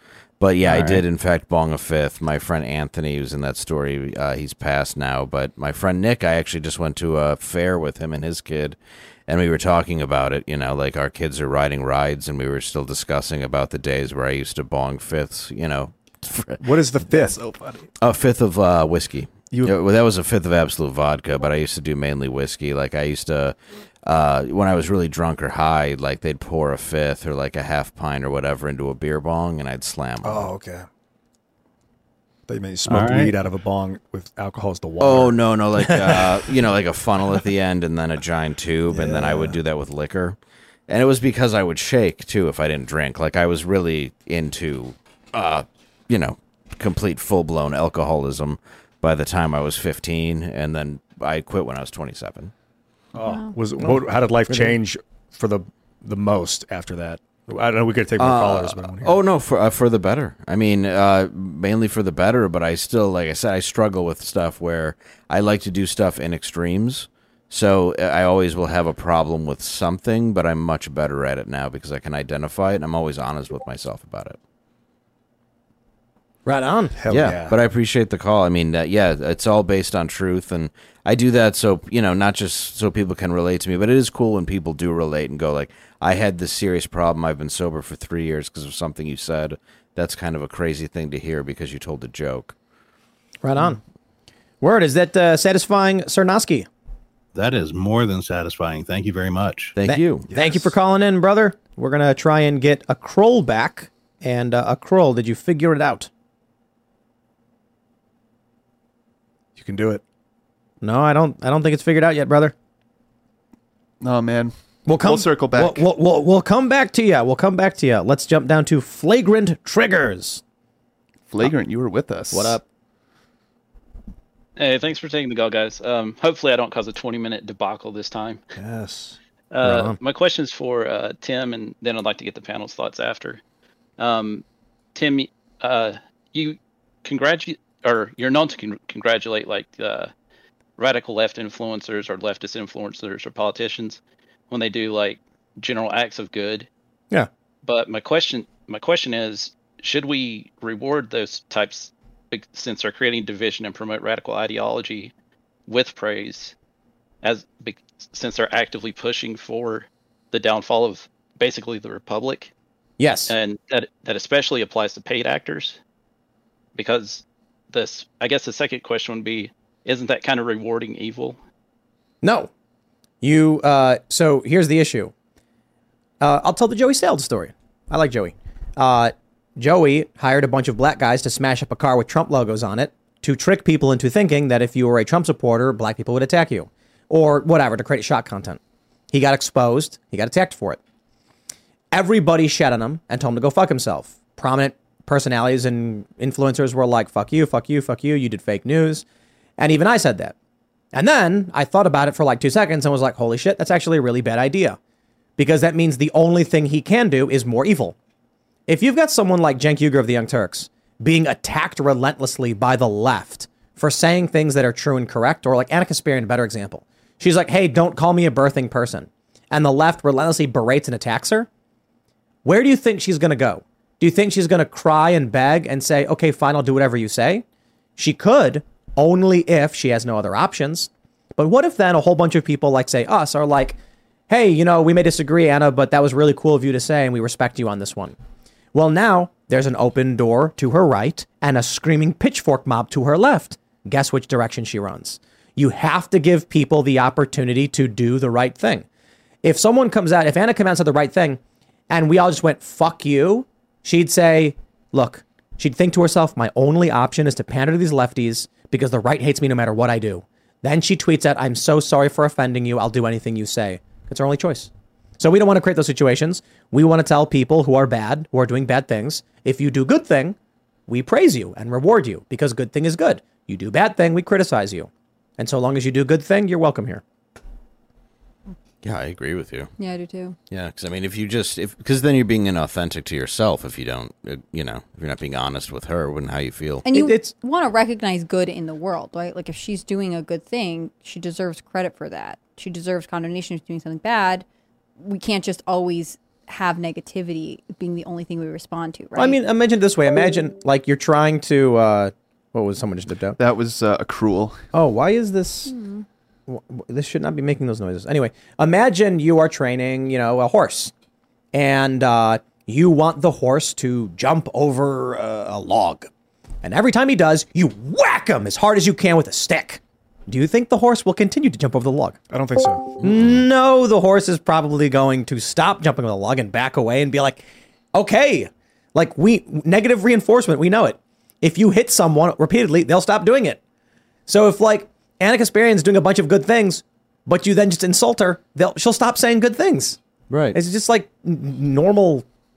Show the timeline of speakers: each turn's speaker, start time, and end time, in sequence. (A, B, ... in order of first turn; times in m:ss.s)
0:00.4-0:16.6 A
0:00.6-0:01.0 B
0:16.6-0:17.5 C
0:17.1-0:17.8 D
0:18.0-0:30.5 A
0:30.2-0:30.9 C
0:32.5-0:36.4 C
0:32.9-0:33.3 B
0:35.0-0:52.5 A
0:38.9-0:39.6 C
0:53.2-0:59.2 C
0:53.3-0:53.5 E
0:58.2-1:14.4 A
1:16.4-1:17.0 F
1:17.0-1:17.6 C
1:17.1-1:32.6 A
1:33.4-1:33.8 F
1:34.6-1:36.7 F
1:37.4-1:39.8 B
1:39.8-1:40.3 A
1:39.8-1:46.1 F
1:40.3-1:40.7 C
1:49.6-1:50.0 C
1:50.8-1:52.5 F
1:54.0-1:55.8 D
1:54.9-2:00.4 F
2:01.3-2:02.6 D
2:02.3-2:02.6 F
2:04.6-2:08.4 G
2:08.6-2:09.2 C
2:09.5-2:13.4 G
2:09.6-2:10.0 F
2:14.0-2:14.4 G
2:15.0-2:20.1 G
2:20.8-2:26.7 G
2:27.6-2:35.1 G
2:35.7-2:36.5 G
2:37.2-2:42.5 G
2:43.0-2:43.3 F
2:43.3-2:45.8 G
2:46.8-2:51.4 G
2:52.2-2:52.5 F
2:53.2-2:55.1 F
2:56.2-3:08.6 F
3:09.1-3:10.8 F
3:11.9-3:19.0 F
3:19.6-3:20.4 F
3:20.9-3:24.8 F
3:25.4-3:28.0 F
3:28.7-3:41.5 F
3:42.4-3:47.4 F
3:48.0-3:53.8 F
3:54.3-3:58.2 F
3:58.7-4:08.9 F
4:09.4-4:30.4 F
4:30.9-4:37.0 F
4:38.8-4:39.7 A
4:39.8-4:40.4 E
4:40.5-4:46.8 A
4:46.8-4:54.4 E
4:46.9-4:47.3 F
4:55.0-4:59.4 E
4:59.2-5:03.4 F
5:03.4-5:04.6 D
5:04.7-5:05.7 F
5:05.7-5:06.0 E
5:06.5-5:10.9 F
5:11.5-5:16.1 F
5:16.6-5:22.2 F
5:22.3-5:23.0 C
5:23.0-5:33.6 F
5:23.0-5:23.3 A
5:34.3-5:40.0 F
5:40.3-5:40.6 A
5:40.5-5:42.2 F